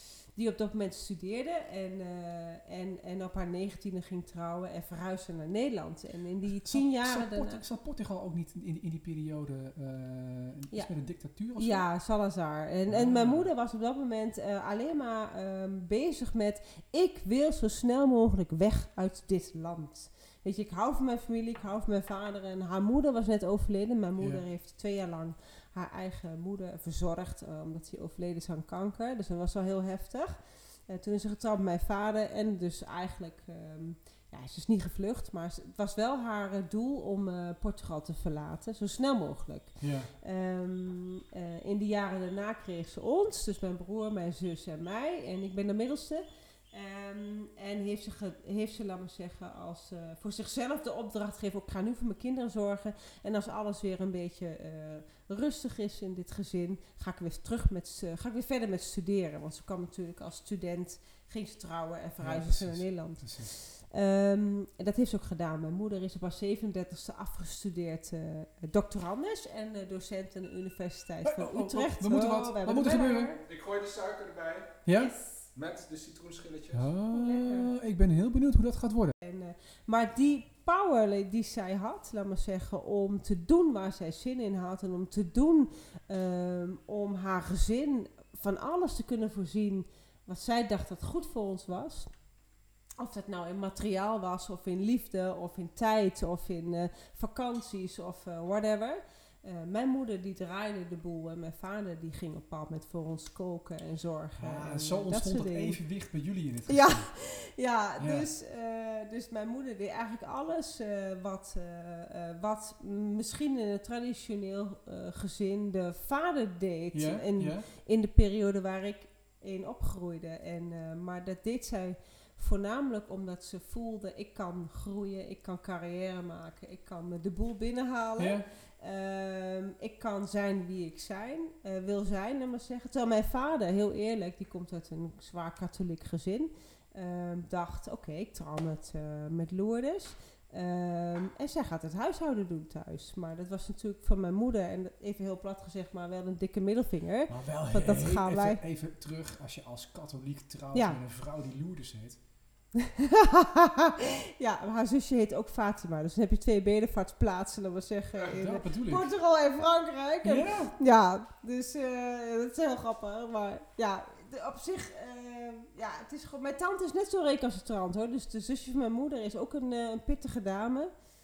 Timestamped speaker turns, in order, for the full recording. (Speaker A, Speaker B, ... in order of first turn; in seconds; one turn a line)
Speaker A: 0.3-7.6
Speaker B: 6.5-11.8
Speaker A: 11.6-73.4
Speaker B: 12.9-13.5
Speaker B: 24.2-24.4
Speaker B: 39.8-40.1
Speaker B: 62.2-63.5
Speaker B: 71.2-73.3
Speaker C: 73.5-74.8
Speaker B: 74.9-75.1
Speaker A: 75.0-75.5
Speaker C: 75.5-76.9
Speaker B: 76.7-79.2
Speaker A: 77.1-77.7
Speaker A: 79.2-92.1
Speaker A: 93.0-105.8
Speaker B: 104.4-107.1
Speaker A: 106.7-148.6
Speaker B: 108.0-108.3
Speaker B: 116.9-117.7
Speaker B: 128.2-128.5
Speaker B: 147.3-152.2
Speaker A: 150.7-151.0
Speaker A: 152.8-170.9
Speaker B: 158.3-159.1
Speaker B: 160.2-160.8